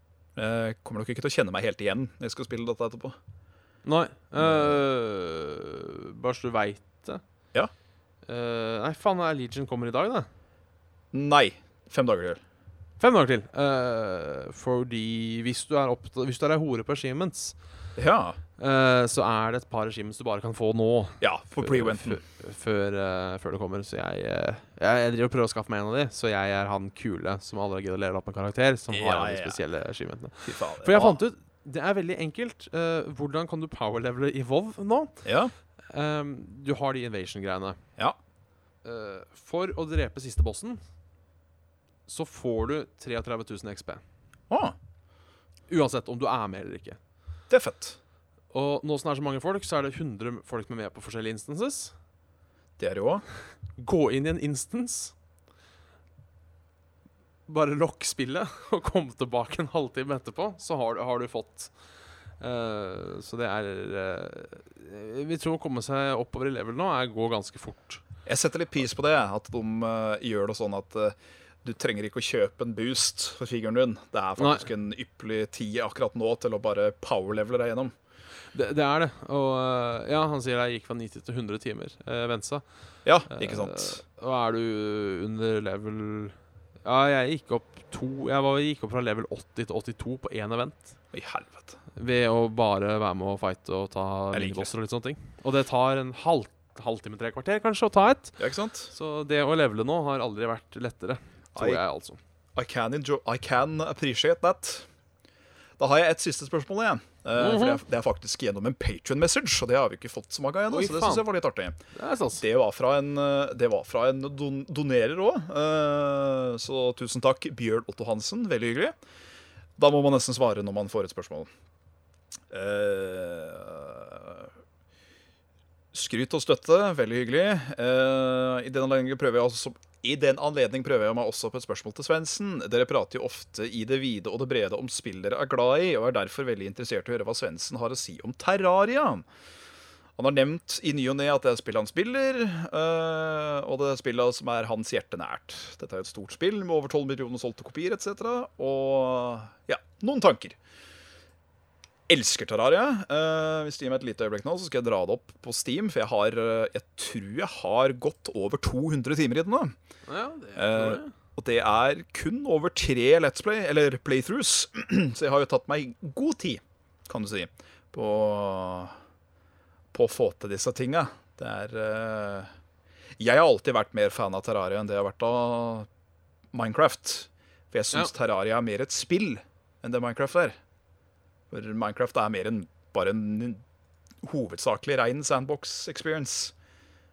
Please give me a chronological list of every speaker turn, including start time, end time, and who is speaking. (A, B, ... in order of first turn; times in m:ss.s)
0:00.4-0:03.2 A
0:03.8-0:07.2 B
0:04.4-0:04.8 A
0:08.3-0:10.3 B
0:11.1-0:12.4 A
0:13.0-0:17.6 B
0:18.0-0:18.4 A
0:18.6-0:35.2 B
0:21.2-0:22.2 A
0:28.9-0:29.6 A
0:30.4-0:31.2 A
0:35.2-0:35.5 A
0:35.9-0:37.8 B
0:38.8-0:40.8 B
0:42.1-0:44.0 B
0:44.5-0:44.8 A
0:45.7-0:47.0 B
0:47.5-0:48.0 A
0:48.5-0:51.9 B
0:52.8-0:53.2 A
0:53.8-0:55.1 B
0:57.5-1:01.7 B
1:02.4-1:08.0 B
1:08.2-1:17.9 A
1:14.4-1:14.7 B
1:18.5-1:22.6 B
1:23.0-1:24.0 A
1:23.3-1:30.9 B
1:31.1-1:31.8 A
1:32.0-1:38.4 B
1:34.3-1:34.7 A
1:38.4-1:38.9 A
1:38.9-1:42.2 B
1:41.5-1:41.8 A
1:42.6-1:44.9 A
1:45.8-1:51.8 A
1:47.4-1:47.8 B
1:50.7-1:51.2 B
1:51.9-1:52.4 B
1:52.4-1:58.9 A
1:59.8-2:01.5 A
2:02.5-2:04.5 A
2:05.9-2:19.2 A
2:20.2-2:30.6 A
2:32.1-2:39.7 A
2:40.0-2:41.1 B
2:40.6-2:48.9 A
2:49.9-2:52.5 A
2:53.2-2:55.9 A
2:56.5-3:00.6 A
3:01.5-3:03.6 A
3:04.2-3:06.5 A